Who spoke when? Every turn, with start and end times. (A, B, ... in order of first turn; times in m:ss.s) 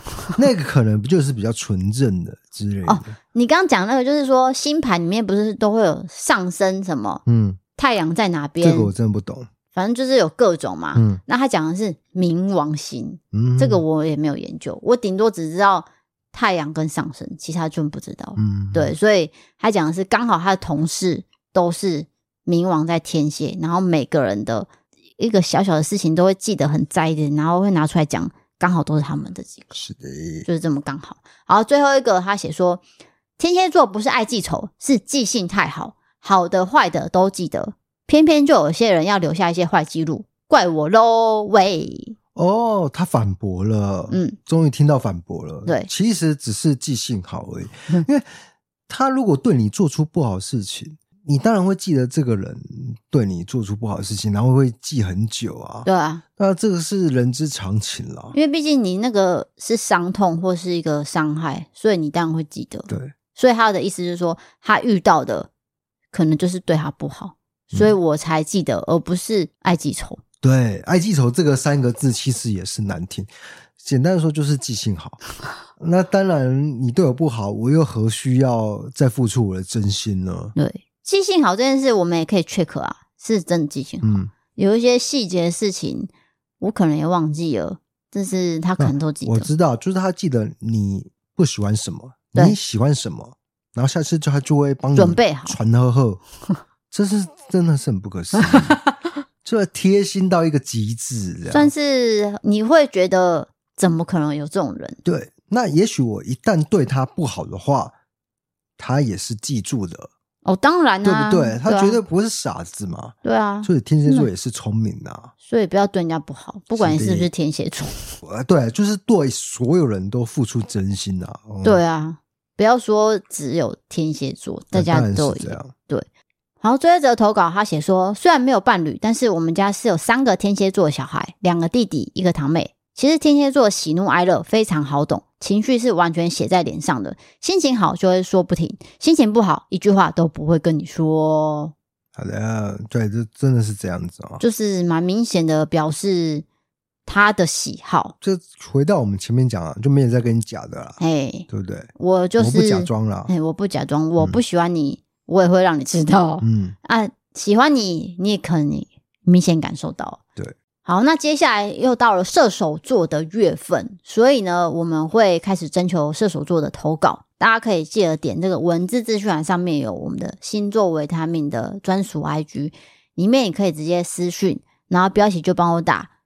0:00.3-0:03.1 A
0:02.8-0:07.2 B
0:07.2-0:07.6 A
0:07.8-0:08.9 B
0:08.6-0:09.5 A
0:09.7-0:29.8 B
0:11.0-0:11.2 A
0:13.3-0:13.8 A
0:18.4-0:18.9 A
0:29.7-0:30.5 A
0:30.4-0:32.8 B
0:33.4-0:42.1 B
0:42.3-0:48.3 A
0:44.1-0:44.4 B
0:48.9-0:58.3 A
0:55.8-0:56.2 B
0:58.3-1:05.5 B
1:06.1-1:10.2 B
1:10.4-1:15.2 A
1:15.8-1:20.5 A
1:20.5-1:29.5 B
1:24.0-1:24.3 A
1:28.8-1:36.2 A
1:34.9-1:35.6 B
1:36.9-1:38.8 A
1:39.4-1:41.7 A
1:41.5-1:45.0 B
1:45.0-1:47.9 A
1:48.8-1:50.1 A
1:50.4-1:52.0 B
1:51.0-1:55.3 A
1:53.2-1:54.3 B
1:55.4-1:58.1 B
1:56.7-1:57.3 A
1:58.2-2:01.8 A
2:01.6-2:06.0 B
2:04.7-2:05.7 A
2:06.6-2:21.7 B
2:22.1-2:24.4 A
2:24.4-2:26.4 B
2:27.0-2:28.1 B
2:28.2-2:33.3 A
2:31.0-2:40.2 B
2:36.4-2:36.8 A
2:40.8-2:56.1 B